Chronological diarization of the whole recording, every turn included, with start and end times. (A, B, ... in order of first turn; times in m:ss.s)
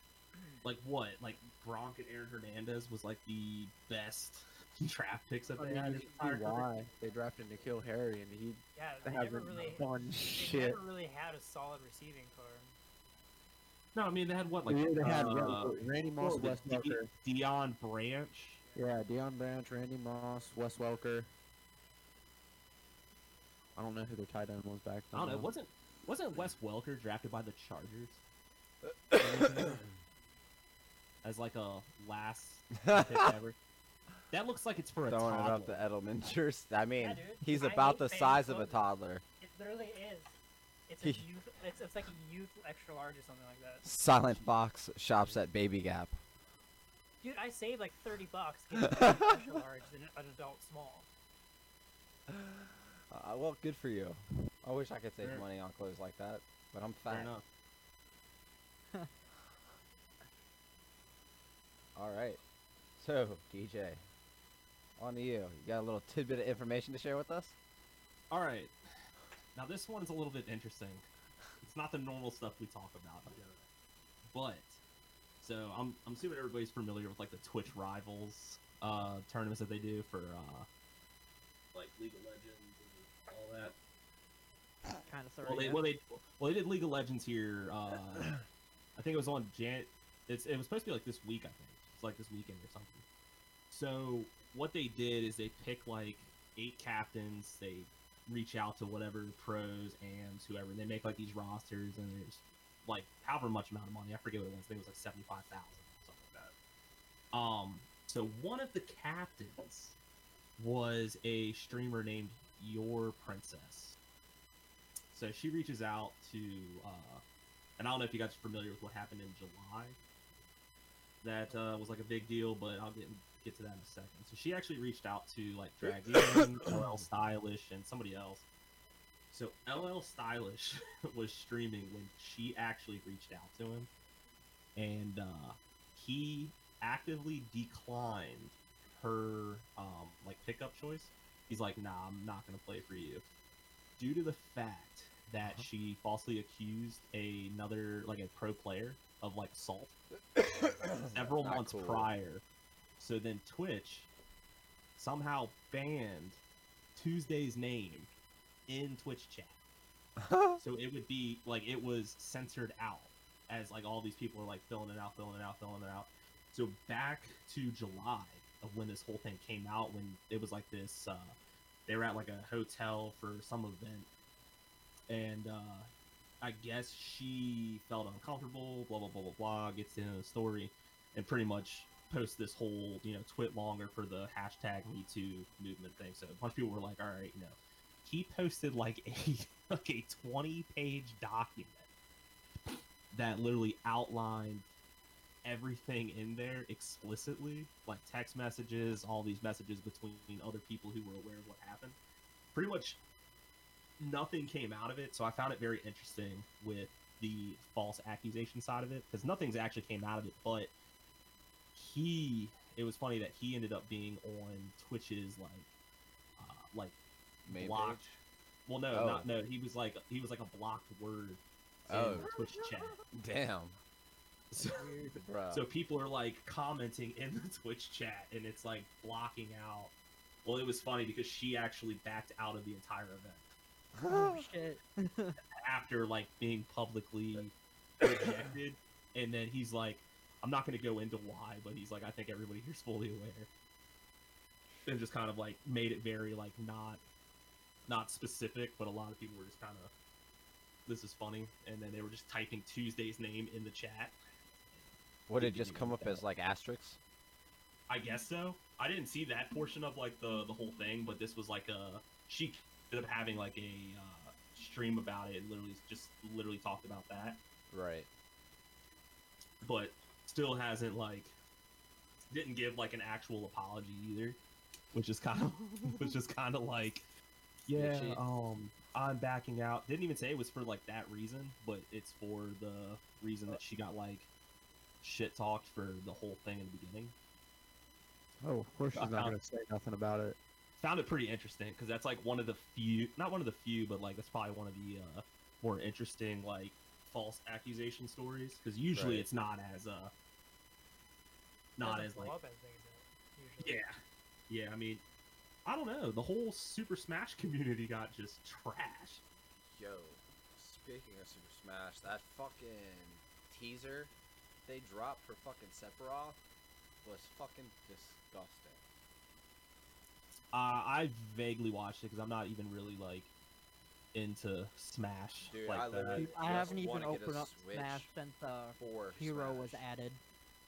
0:00.6-0:06.7 A
0:05.6-0:10.8 B
0:08.7-0:12.7 C
0:13.9-0:18.6 A
0:14.7-0:17.1 B
0:18.7-0:21.3 B
0:23.8-0:25.5 B
0:25.1-0:28.2 A
0:29.1-0:29.7 D
0:29.2-0:29.8 A
0:31.2-0:33.6 A
0:32.8-0:33.3 D
0:34.3-0:35.8 A
0:35.1-0:39.2 D
0:37.0-0:38.9 C
0:39.4-0:40.3 C
0:40.9-0:43.8 C
0:43.8-0:46.2 D
0:47.2-0:51.1 C
0:53.1-0:57.3 D
0:57.1-0:57.4 A
1:01.9-1:02.4 D
1:03.0-1:04.0 D
1:05.0-1:07.5 D
1:08.3-1:08.7 A
1:09.5-1:11.0 A
1:11.6-1:13.6 A
1:14.3-1:14.8 A
1:15.4-1:20.7 A
1:21.7-1:23.8 A
1:25.0-1:25.9 E
1:25.4-1:28.4 A
1:29.0-1:33.0 A
1:33.7-1:46.5 A
1:47.3-1:50.0 A
1:50.6-1:54.0 A
1:55.1-1:57.2 A
1:57.8-2:00.0 A
2:01.2-2:08.4 A
2:09.3-2:13.9 A
2:14.8-2:23.2 A
2:24.0-2:29.9 A
2:30.4-2:32.1 D
2:31.0-2:32.4 A
2:33.0-2:34.1 A
2:35.0-2:36.4 A
2:36.9-2:38.1 A
2:38.7-2:39.6 A
2:40.2-2:40.6 D
2:40.6-2:51.3 A
2:51.9-2:54.1 A
2:55.1-2:55.9 A
2:56.4-3:11.9 A
3:13.1-3:14.6 A
3:15.4-3:22.0 A
3:22.5-3:23.0 A
3:24.0-3:30.7 A
3:31.7-3:35.7 A
3:36.4-3:43.0 A
3:37.4-3:38.0 D
3:38.9-3:39.3 D
3:41.9-3:42.3 D
3:43.1-3:43.8 D
3:44.5-3:49.9 A
3:45.2-3:45.6 D
3:50.4-3:53.5 A
3:54.0-3:54.4 D
3:54.0-3:55.4 E
3:55.6-4:03.5 A
4:04.8-4:07.0 A
4:07.9-4:09.9 A
4:10.8-4:14.2 A
4:15.3-4:17.0 D
4:15.4-4:16.2 A
4:17.9-4:27.4 A
4:27.7-4:28.1 D
4:29.6-4:31.3 A
4:32.3-4:34.4 A
4:34.9-4:37.1 A
4:37.7-4:44.3 A
4:37.7-4:38.2 D
4:45.0-4:47.1 A
4:48.4-4:50.4 B
4:48.9-4:49.4 A
4:50.8-5:00.1 A
4:58.9-4:59.3 D
5:01.8-5:02.3 A
5:01.8-5:03.8 C
5:03.6-5:05.0 A
5:05.6-5:09.2 A
5:09.6-5:14.1 D
5:14.6-5:16.4 D
5:17.0-5:18.8 D
5:20.5-5:23.3 A
5:24.1-5:26.8 A
5:25.5-5:28.1 D
5:26.1-5:30.2 E
5:28.8-5:29.8 D